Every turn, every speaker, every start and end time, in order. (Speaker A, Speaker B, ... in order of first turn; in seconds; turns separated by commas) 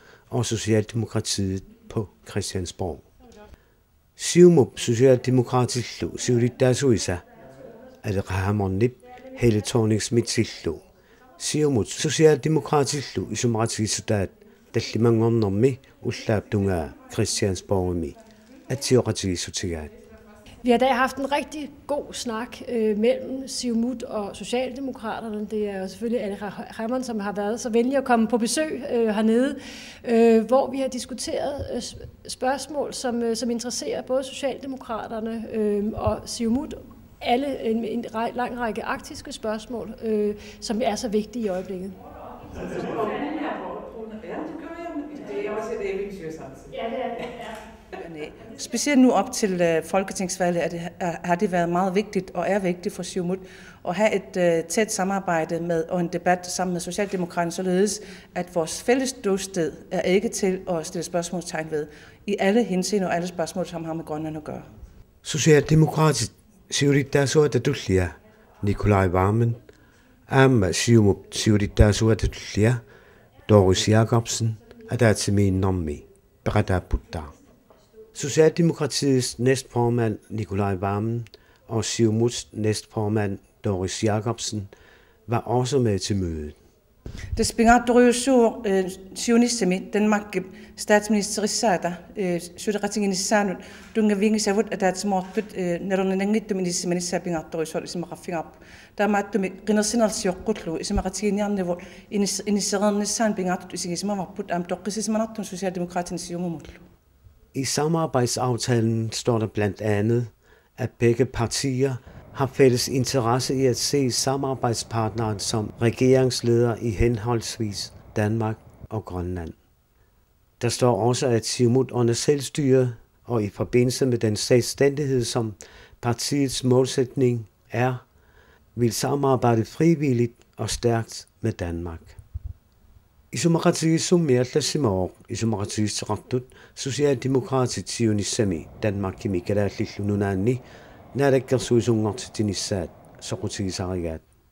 Speaker A: 0.3-3.0, Speaker A: 4.2-7.2, Speaker A: 8.0-10.8, Speaker A: 11.4-18.2, Speaker A: 18.7-19.9, Speaker B: 20.6-42.0, Speaker C: 42.7-46.9, Speaker C: 48.0-64.6, Speaker A: 65.2-69.6, Speaker A: 70.3-72.8, Speaker A: 73.5-77.3, Speaker A: 78.1-84.7, Speaker A: 85.3-86.6, Speaker C: 87.3-106.8, Speaker A: 107.5-119.5, Speaker A: 120.6-128.0, Speaker A: 128.7-132.2, Speaker A: 133.3-144.2